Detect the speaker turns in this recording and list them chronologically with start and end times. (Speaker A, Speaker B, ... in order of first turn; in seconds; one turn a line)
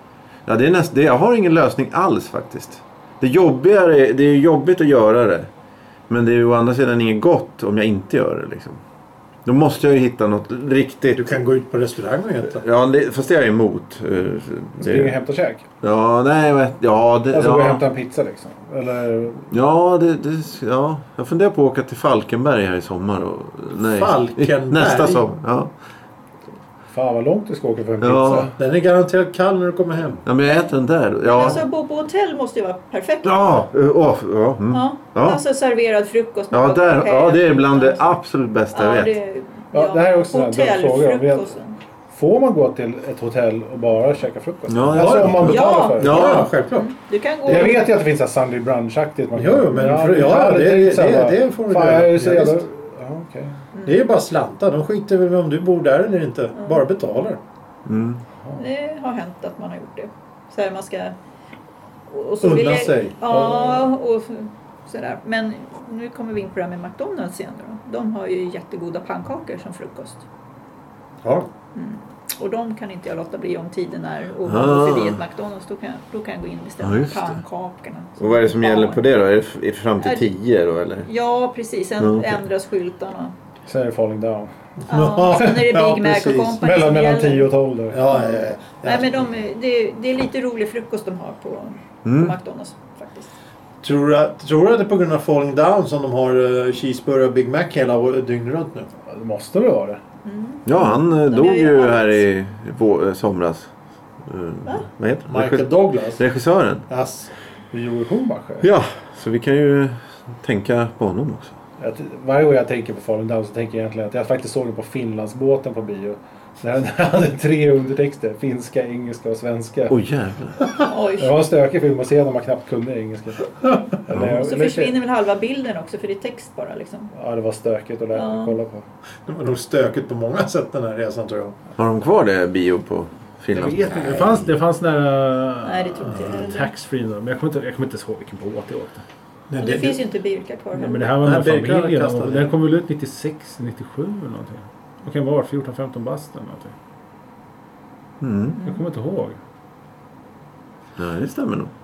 Speaker A: 0.5-5.5
Speaker A: 6.1-8.8
Speaker A: 9.5-11.4
Speaker B: 11.2-12.6
Speaker A: 12.5-15.2
Speaker C: 14.8-15.7
Speaker A: 15.8-17.8
Speaker C: 17.3-19.5
Speaker A: 19.5-25.7
Speaker B: 23.9-25.3
Speaker C: 26.9-28.5
Speaker A: 28.0-28.5
Speaker B: 28.6-30.2
Speaker A: 30.2-31.6
Speaker D: 31.2-33.7
Speaker A: 33.2-35.4
Speaker D: 34.7-38.2
Speaker A: 36.5-39.2
Speaker D: 38.7-41.8
Speaker C: 39.7-41.5
Speaker C: 42.1-46.3
Speaker A: 44.7-46.5
Speaker B: 45.0-46.9
Speaker D: 45.4-47.8
Speaker C: 47.5-53.6
Speaker B: 47.5-47.8
Speaker B: 49.4-52.7
Speaker D: 53.7-54.1
Speaker B: 53.9-57.4
Speaker D: 56.6-56.8
Speaker A: 57.9-58.2
Speaker D: 58.6-61.1
Speaker D: 62.1-70.2
Speaker B: 62.4-63.2
Speaker C: 63.3-63.8
Speaker B: 71.2-71.5
Speaker D: 71.8-79.0
Speaker A: 74.5-75.2
Speaker A: 76.8-77.4
Speaker A: 78.2-81.1
Speaker D: 80.0-80.3
Speaker D: 81.0-83.3
Speaker A: 82.0-82.4
Speaker C: 83.7-84.5
Speaker B: 84.9-86.6
Speaker D: 84.9-87.5
Speaker C: 86.6-88.0
Speaker B: 87.9-89.3
Speaker D: 88.1-93.3
Speaker A: 92.0-92.4
Speaker B: 93.8-98.9
Speaker C: 99.1-100.0
Speaker D: 100.2-102.2
Speaker A: 100.7-103.7
Speaker A: 104.2-106.9
Speaker B: 105.3-106.2
Speaker B: 106.9-107.3
Speaker C: 107.7-108.7
Speaker A: 108.6-111.6
Speaker C: 111.8-120.0
Speaker A: 119.9-120.6
Speaker D: 120.8-121.4
Speaker C: 121.2-125.0
Speaker A: 124.1-124.4
Speaker D: 124.4-127.1
Speaker C: 127.1-128.8
Speaker D: 128.1-128.6
Speaker B: 129.3-131.6
Speaker A: 131.8-134.5
Speaker C: 133.5-139.0
Speaker D: 135.6-136.7
Speaker B: 139.5-140.0
Speaker D: 139.6-141.2
Speaker C: 140.8-146.7
Speaker B: 141.2-142.5
Speaker A: 148.2-148.6
Speaker C: 148.6-149.4
Speaker A: 151.0-151.7